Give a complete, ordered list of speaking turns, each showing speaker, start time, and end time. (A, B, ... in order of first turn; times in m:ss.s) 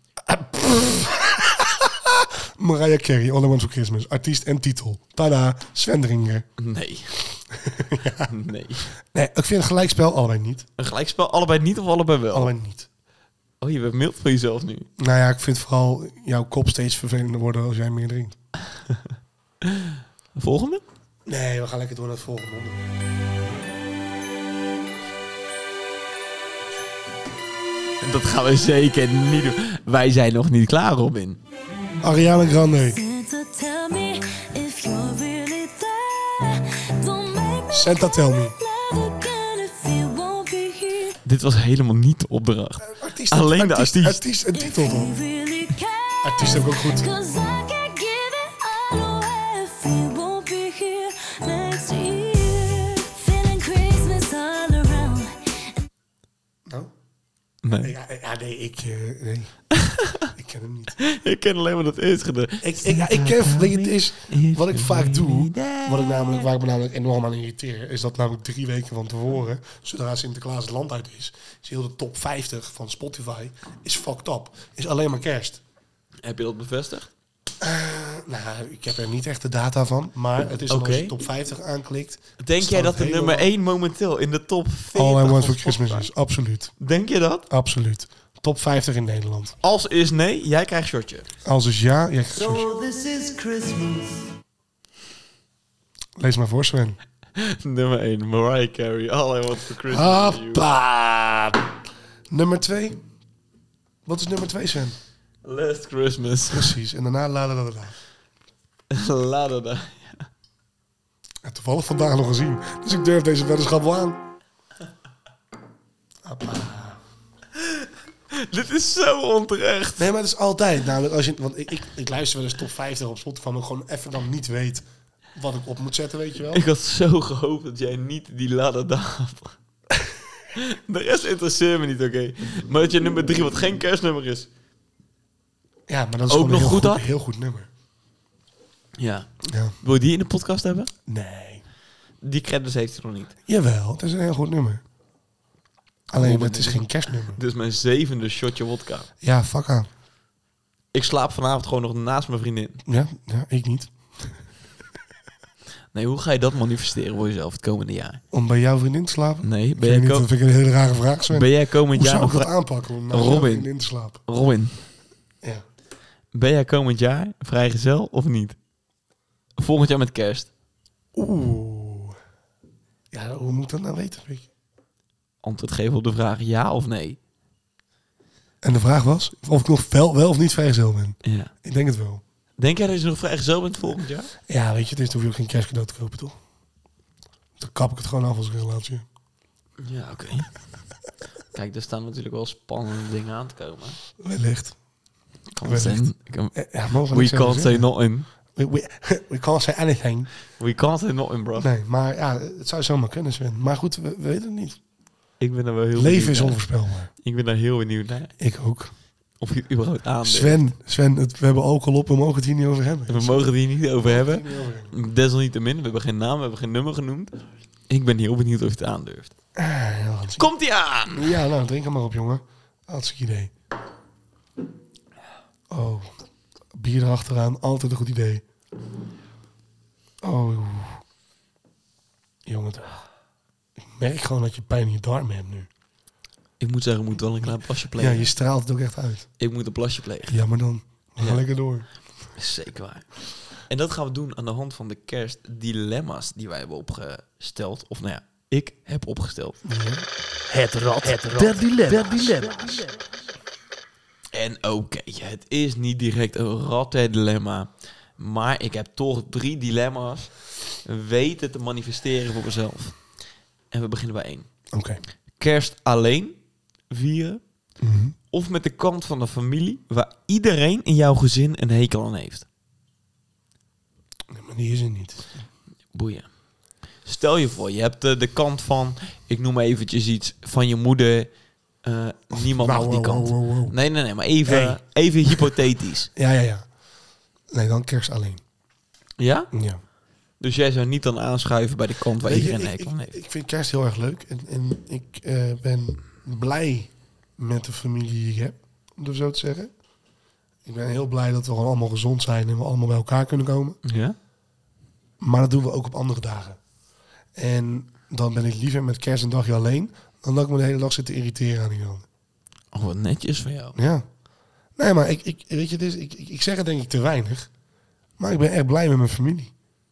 0:00.3-0:06.5 A
0:06.6-0:07.2 B
0:07.5-0:08.3 A
0:08.3-0:08.9 B
0:09.0-0:10.7 A
0:10.8-0:12.5 B
0:12.3-0:12.9 A
0:13.6-0:14.9 B
0:15.0-0:18.4 A
0:19.6-0:20.8 B
0:21.3-0:22.9 A
0:28.0-0:31.4 B
0:32.0-0:33.0 A
0:32.9-0:41.2 C
0:37.7-0:38.6 A
0:41.2-0:44.2 B
0:42.8-0:45.1 A
0:44.5-0:55.7 C
0:46.2-0:47.1 A
0:56.7-0:56.9 A
0:57.6-0:57.9 B
0:57.8-0:59.6 A
0:59.8-1:00.3 B
1:00.3-1:01.0 A
1:01.0-1:06.4 B
1:02.6-1:15.6 A
1:16.2-1:17.1 B
1:17.6-1:23.5 A
1:20.7-1:21.2 B
1:22.4-1:26.1 B
1:24.9-1:26.8 A
1:26.8-1:27.5 B
1:27.5-1:29.6 A
1:29.6-1:31.3 B
1:31.4-1:32.7 A
1:32.4-1:34.2 D
1:36.2-1:37.0 A
1:37.4-1:40.6 B
1:39.9-1:41.7 A
1:42.3-1:43.0 A
1:44.1-1:45.0 A
1:45.4-1:46.8 B
1:46.5-1:48.0 A
1:48.9-1:50.3 B
1:51.4-1:54.2 A
1:56.2-1:57.0 A
1:58.3-2:00.1 B
2:00.0-2:06.6 A
2:06.5-2:09.6 B
2:10.6-2:14.5 B
2:15.9-2:17.7 A
2:16.3-2:17.1 B
2:19.0-2:19.3 B
2:19.5-2:19.8 A
2:19.8-2:20.9 B
2:21.1-2:21.6 A
2:22.2-2:23.4 B
2:23.5-2:24.8 A
2:26.1-2:27.4 A
2:26.2-2:29.1 B
2:29.2-2:29.9 A
2:30.9-2:32.8 B
2:32.9-2:34.4 A
2:35.9-2:38.2 B
2:38.3-2:44.2 A
2:39.4-2:40.3 B
2:41.3-2:42.5 B
2:43.1-2:43.7 B
2:44.3-2:44.8 B
2:46.3-2:48.6 B
2:49.6-2:50.5 B
2:51.2-2:52.2 A
2:53.1-2:54.5 A
2:55.4-2:57.2 B
2:58.6-3:02.2 A
3:01.2-3:01.5 B
3:02.6-3:04.3 B
3:04.5-3:06.4 A
3:07.6-3:09.1 A
3:09.8-3:10.5 B
3:11.5-3:14.0 B
3:14.2-3:14.8 A
3:15.6-3:16.6 B
3:15.6-3:17.9 A
3:17.1-3:18.3 B
3:18.5-3:20.3 A
3:20.6-3:21.7 B
3:21.6-3:24.8 A
3:25.4-3:26.6 B
3:26.0-3:27.1 A
3:27.2-3:28.3 B
3:28.4-3:28.9 A
3:29.4-3:30.6 B
3:30.2-3:33.5 A
3:33.1-3:37.4 B
3:34.0-3:34.9 A
3:37.9-3:39.3 B
3:39.6-3:40.5 A
3:40.4-3:41.4 B
3:41.1-3:43.5 A
3:45.7-3:46.1 A
3:46.7-3:48.4 A
3:50.2-3:51.0 A
3:52.5-3:53.0 A
3:53.8-3:55.7 A
3:56.6-3:58.3 B
3:58.0-3:59.3 A
3:59.4-4:00.4 B
4:00.3-4:01.9 A
4:02.4-4:03.1 B
4:03.7-4:09.6 B
4:09.6-4:12.6 A
4:11.0-4:12.8 B
4:11.0-4:12.9 D
4:14.3-4:23.0 B
4:23.7-4:24.5 B
4:24.7-4:25.0 A
4:25.4-4:26.4 B
4:26.9-4:27.4 B
4:27.8-4:28.2 A
4:28.3-4:32.5 B
4:34.3-4:35.3 A
4:35.9-4:36.3 B
4:37.0-4:41.3 B
4:41.8-4:46.1 B
4:42.3-4:43.8 A
4:44.5-4:45.4 A
4:46.2-4:46.7 A
4:47.5-4:48.4 A
4:49.2-4:49.5 B
4:49.5-4:49.8 A
4:50.4-4:53.2 B
4:52.2-4:59.7 A
5:00.6-5:03.8 A
5:03.8-5:04.2 B
5:05.2-5:06.6 A
5:07.4-5:12.1 A
5:12.7-5:13.8 B
5:13.8-5:14.0 A
5:14.8-5:17.5 A
5:18.2-5:19.5 A